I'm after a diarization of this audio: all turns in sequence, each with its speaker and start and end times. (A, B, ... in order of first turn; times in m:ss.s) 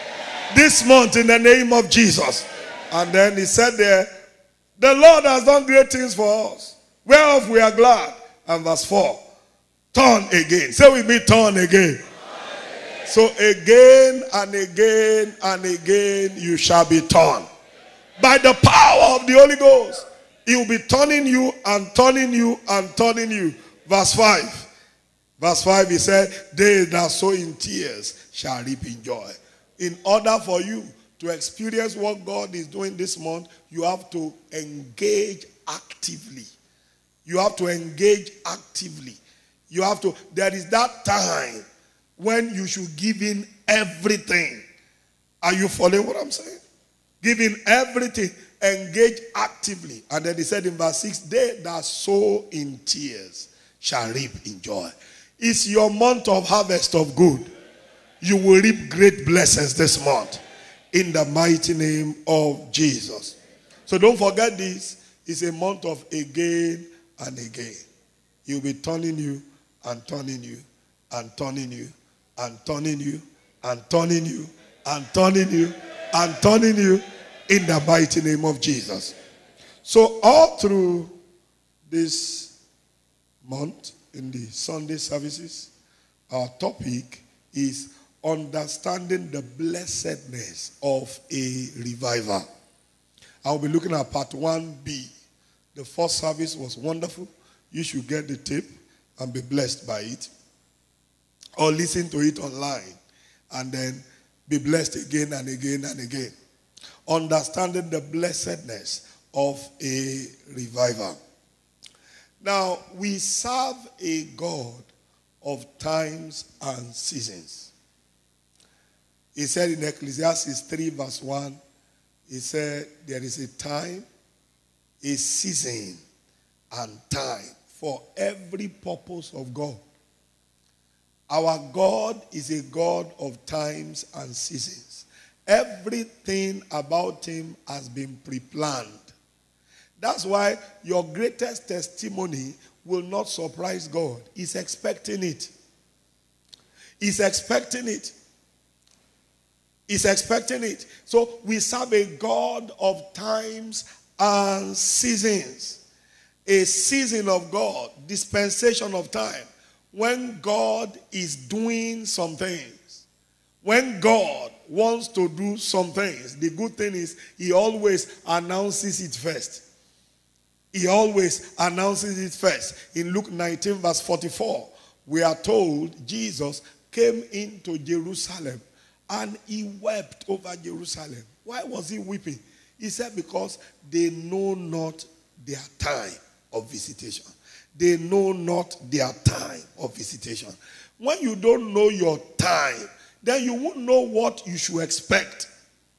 0:00.5-0:04.1 A
0:04.8-0:09.2 A
0:09.9-0:12.0 A
0:13.1-0:17.4 A
0:18.2-0:24.7 A
0:25.4-0:36.5 A
0:37.2-0:39.2 A
0:39.7-0:41.6 A
0:42.2-0:44.6 A
0:45.4-0:46.6 A
0:47.2-0:57.5 A
0:58.2-1:00.4 A
1:00.9-1:03.4 A
1:03.9-1:07.8 A
1:08.4-1:19.1 A
1:19.8-1:21.1 A
1:21.9-1:22.5 A
1:23.4-1:25.7 A
1:26.3-1:32.4 A
1:33.4-1:35.1 A
1:35.7-1:40.3 A
1:41.6-1:43.0 A
1:43.5-1:46.3 A
1:47.1-1:51.2 A
1:52.4-1:54.9 A
1:55.4-1:57.7 A
1:59.3-2:01.6 A
2:02.3-2:04.0 A
2:05.0-2:06.0 A
2:06.7-2:09.8 A
2:11.3-2:19.1 A
2:20.0-2:25.5 A
2:27.0-2:28.1 A
2:29.9-2:35.8 A
2:36.4-2:43.0 A
2:43.6-2:49.6 A
2:50.7-3:15.5 A